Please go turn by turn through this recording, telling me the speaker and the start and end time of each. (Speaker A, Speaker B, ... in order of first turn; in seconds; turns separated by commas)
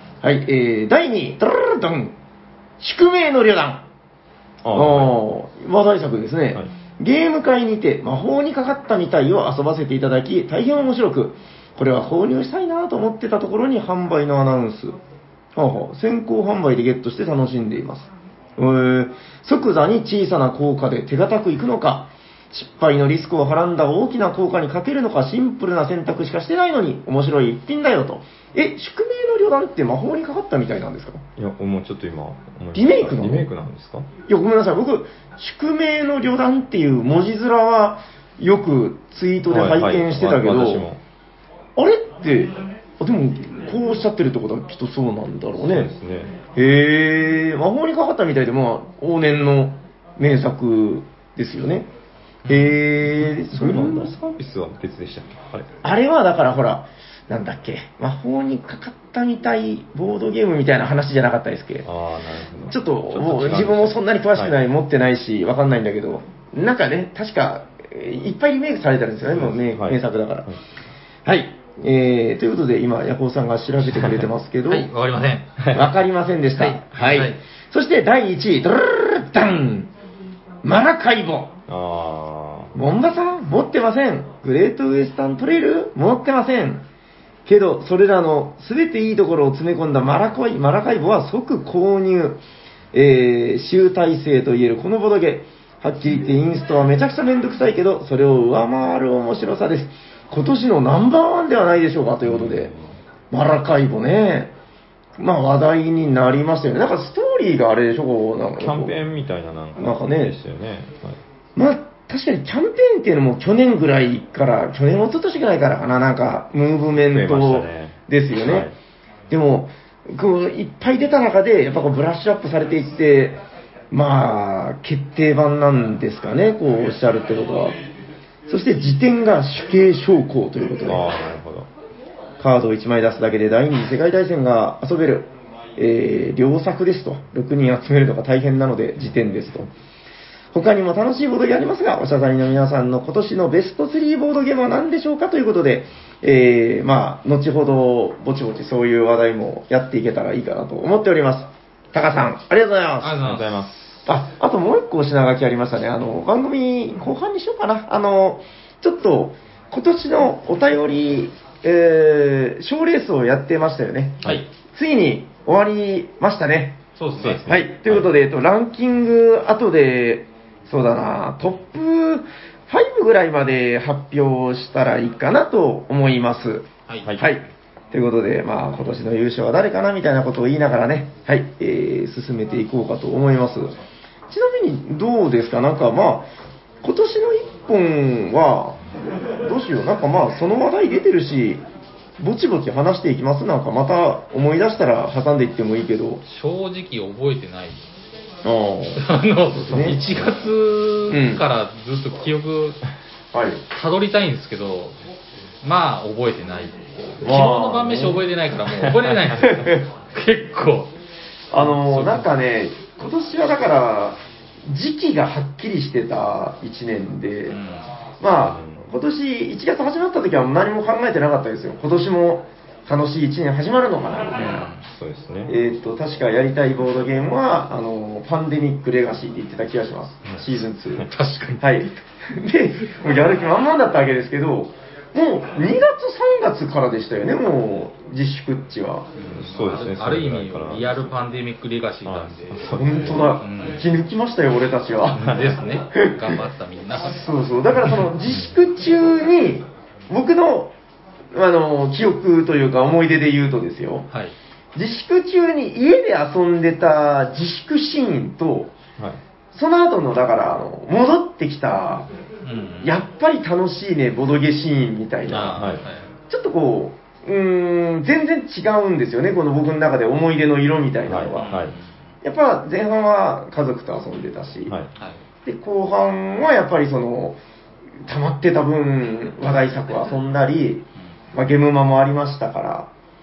Speaker A: 0.2-2.1, Speaker A: 2.8-3.8, Speaker B: 4.6-5.2, Speaker A: 4.7-15.0, Speaker A: 15.6-31.2, Speaker B: 31.4-34.1, Speaker A: 32.7-33.5, Speaker A: 34.3-40.9, Speaker B: 39.5-41.0, Speaker A: 41.8-45.9, Speaker B: 45.6-46.4, Speaker A: 46.5-51.9, Speaker C: 52.5-52.8, Speaker A: 52.5-54.2, Speaker B: 53.5-55.7, Speaker A: 55.8-61.9, Speaker B: 61.8-64.6, Speaker A: 62.7-70.5, Speaker B: 69.3-70.6, Speaker A: 71.2-74.9, Speaker B: 73.9-74.3, Speaker C: 74.7-75.6, Speaker B: 75.6-75.9, Speaker A: 75.7-79.9, Speaker C: 76.6-77.4, Speaker A: 80.6-81.5, Speaker B: 81.7-82.7, Speaker A: 82.8-86.8, Speaker A: 87.5-92.4, Speaker A: 92.9-102.7, Speaker B: 102.2-103.0, Speaker A: 103.3-104.5, Speaker A: 105.2-109.0, Speaker B: 108.6-111.2, Speaker A: 109.8-110.4, Speaker A: 111.6-118.7, Speaker B: 117.1-118.8, Speaker A: 119.3-127.8, Speaker A: 128.5-131.1, Speaker B: 130.9-131.7, Speaker A: 132.4-139.7, Speaker A: 140.5-153.2, Speaker C: 153.0-153.7, Speaker B: 153.2-154.0, Speaker A: 154.1-166.8, Speaker C: 167.0-167.5, Speaker B: 167.2-168.1, Speaker A: 167.4-183.7, Speaker A: 184.3-186.3, Speaker A: 186.8-188.8, Speaker A: 189.4-191.6, Speaker A: 192.2-196.2, Speaker C: 196.3-197.8, Speaker A: 198.4-200.0, Speaker C: 199.0-202.8, Speaker A: 201.1-201.4, Speaker A: 203.3-203.6, Speaker C: 203.7-205.0, Speaker C: 205.6-210.9, Speaker A: 207.2-208.3, Speaker B: 208.7-209.2, Speaker A: 209.4-209.9, Speaker A: 211.5-217.6, Speaker C: 211.6-212.3, Speaker C: 217.5-217.9, Speaker A: 218.2-224.7, Speaker B: 218.4-218.9, Speaker C: 224.3-224.8, Speaker B: 224.8-225.5, Speaker A: 225.5-231.1, Speaker C: 231.1-231.9, Speaker A: 231.6-239.1, Speaker C: 239.2-243.8, Speaker B: 239.3-241.1, Speaker B: 242.1-243.4, Speaker A: 242.7-246.4, Speaker C: 245.1-247.2, Speaker B: 245.2-245.5, Speaker A: 247.0-250.7, Speaker A: 251.3-254.1, Speaker A: 254.8-258.7, Speaker A: 259.5-262.1, Speaker C: 262.4-262.9, Speaker A: 262.8-265.7, Speaker C: 265.3-266.1, Speaker B: 265.4-265.9, Speaker A: 266.3-271.5, Speaker B: 271.1-271.8, Speaker C: 271.4-271.9, Speaker A: 272.2-274.8, Speaker A: 275.4-277.4, Speaker A: 278.1-282.9